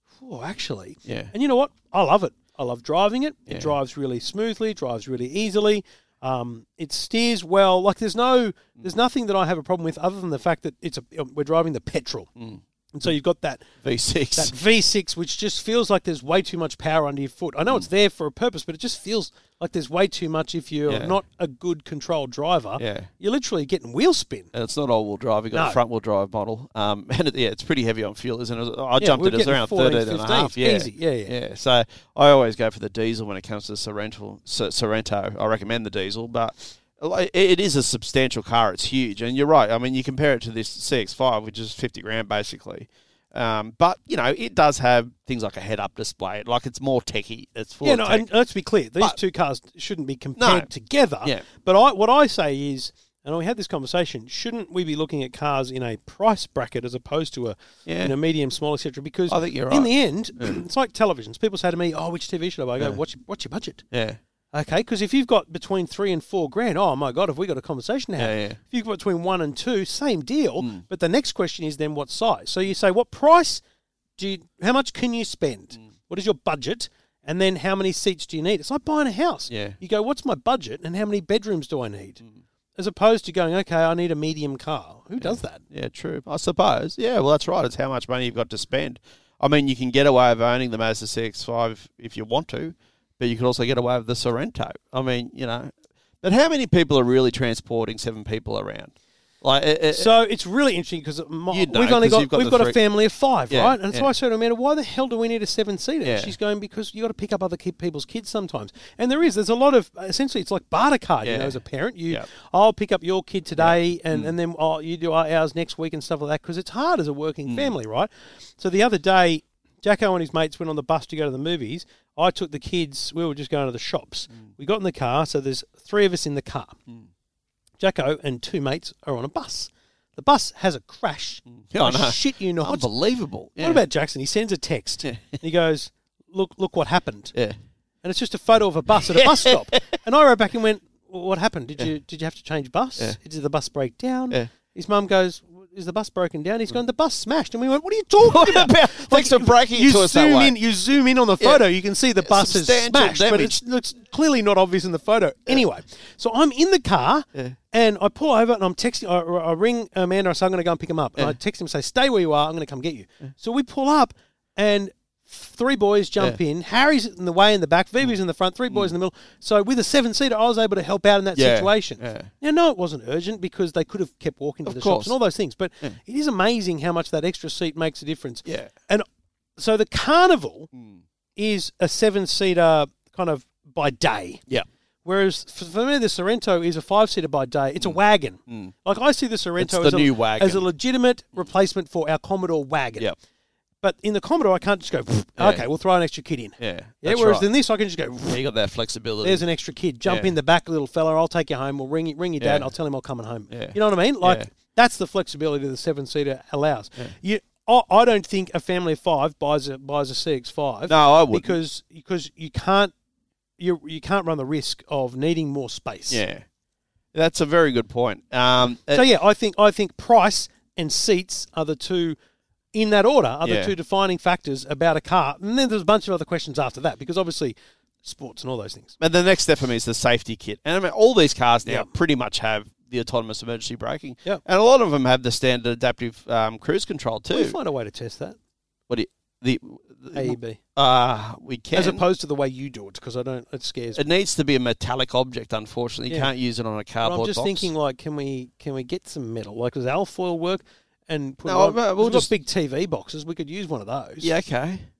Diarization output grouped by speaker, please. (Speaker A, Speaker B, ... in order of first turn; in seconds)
Speaker A: 0.2-12.3, 12.9-13.7, 14.3-24.5, 25.5-25.8, 29.0-31.3, 47.8-63.8, 64.5-73.6, 74.2-82.2, 82.8-85.6, 99.9-126.8, 127.8-132.9, 133.6-137.3, 138.0-179.1, 179.6-180.7, 181.3-184.4, 185.0-193.1, 193.8-198.4, 199.2-212.9, 213.6-216.2, 218.9-222.2, 222.7-228.9, 237.3-238.4, 240.1-240.6, 241.7-244.0, 247.0-254.3
Speaker B: 1.1-1.3, 13.8-14.5, 20.9-21.2, 22.8-23.1, 24.5-48.2, 50.4-50.7, 57.9-58.1, 59.3-60.5, 63.9-64.2, 68.2-68.6, 79.5-79.8, 85.2-100.1, 101.5-102.8, 103.5-104.1, 106.0-106.3, 111.2-112.2, 113.6-114.3, 117.5-117.7, 131.6-133.8, 135.0-135.4, 139.1-139.8, 148.2-150.6, 151.4-151.7, 152.2-153.6, 171.3-172.3, 174.6-175.2, 178.4-178.7, 180.7-181.0, 188.5-188.7, 189.6-190.7, 195.4-195.7, 196.6-197.5, 198.3-199.4, 200.0-200.3, 202.4-202.7, 203.5-204.5, 210.9-211.5, 216.1-216.4, 217.1-219.1, 223.4-223.7, 229.0-237.6, 238.9-242.0, 243.9-247.7, 251.4-252.3, 254.2-254.8